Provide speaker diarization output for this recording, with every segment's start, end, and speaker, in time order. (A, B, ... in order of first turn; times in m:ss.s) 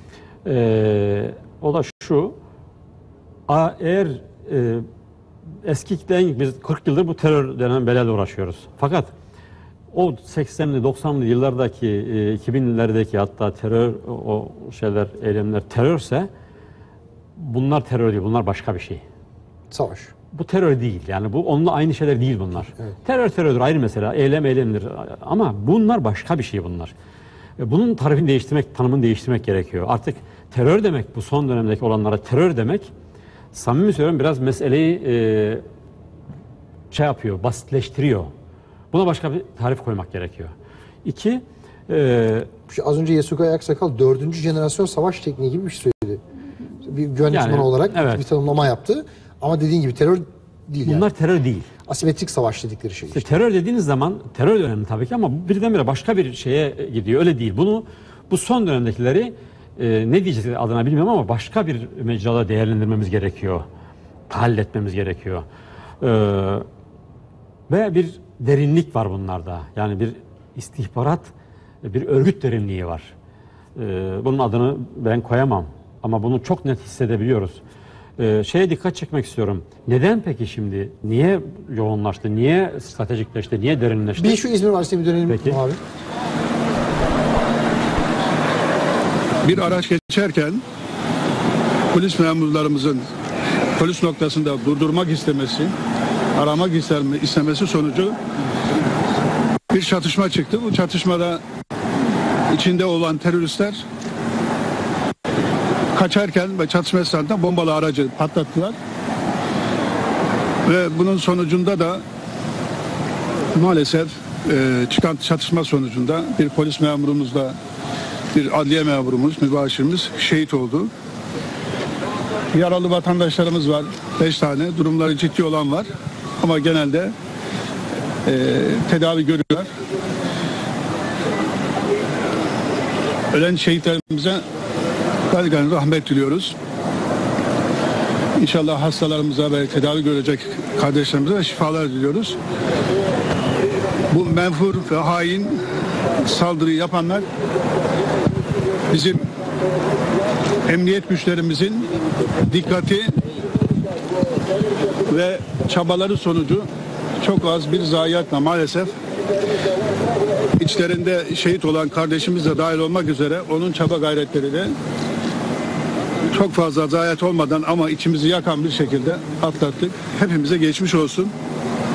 0:00.4-0:02.4 A
0:03.5-0:04.9 A
0:05.6-0:09.1 A
0:09.9-0:16.3 A
0:17.4-0:19.0 A
0:19.7-0:20.1 B
0:20.3-0:26.9 A
0:27.6-0:32.9 A
0:33.5-0:35.6 A
0:36.9-0:38.3 A
0:38.9-0:42.5 A
0:42.7-0:46.2 B
0:46.8-0:51.1 B
0:47.3-0:48.2 A
0:50.8-0:51.7 A
0:51.9-0:53.2 B
0:53.1-1:03.7 A
1:04.3-1:05.5 A
1:06.0-1:06.7 A
1:07.7-1:11.3 A
1:11.8-1:13.1 A
1:13.8-1:17.6 A
1:18.2-1:24.4 A
1:24.2-1:25.8 B
1:25.3-1:25.6 A
1:29.4-1:30.6 C
1:31.9-1:33.0 C
1:33.8-1:35.7 C
1:36.4-1:38.2 C
1:39.7-1:41.4 C
1:42.5-1:43.8 C
1:46.0-1:48.5 C
1:48.2-1:48.7 B
1:50.7-1:52.0 C
1:53.5-1:57.6 C
1:58.3-2:00.9 C
2:02.5-2:07.1 C
2:08.2-2:09.7 C
2:13.3-2:14.4 C
2:15.3-2:16.6 C
2:18.4-2:22.4 C
2:24.1-2:25.6 C
2:26.2-2:27.3 C
2:28.9-2:29.2 C
2:30.7-2:31.9 C
2:32.5-2:33.2 C
2:35.1-2:36.7 C
2:37.2-2:39.0 C
2:40.6-2:44.7 C
2:46.3-2:51.3 C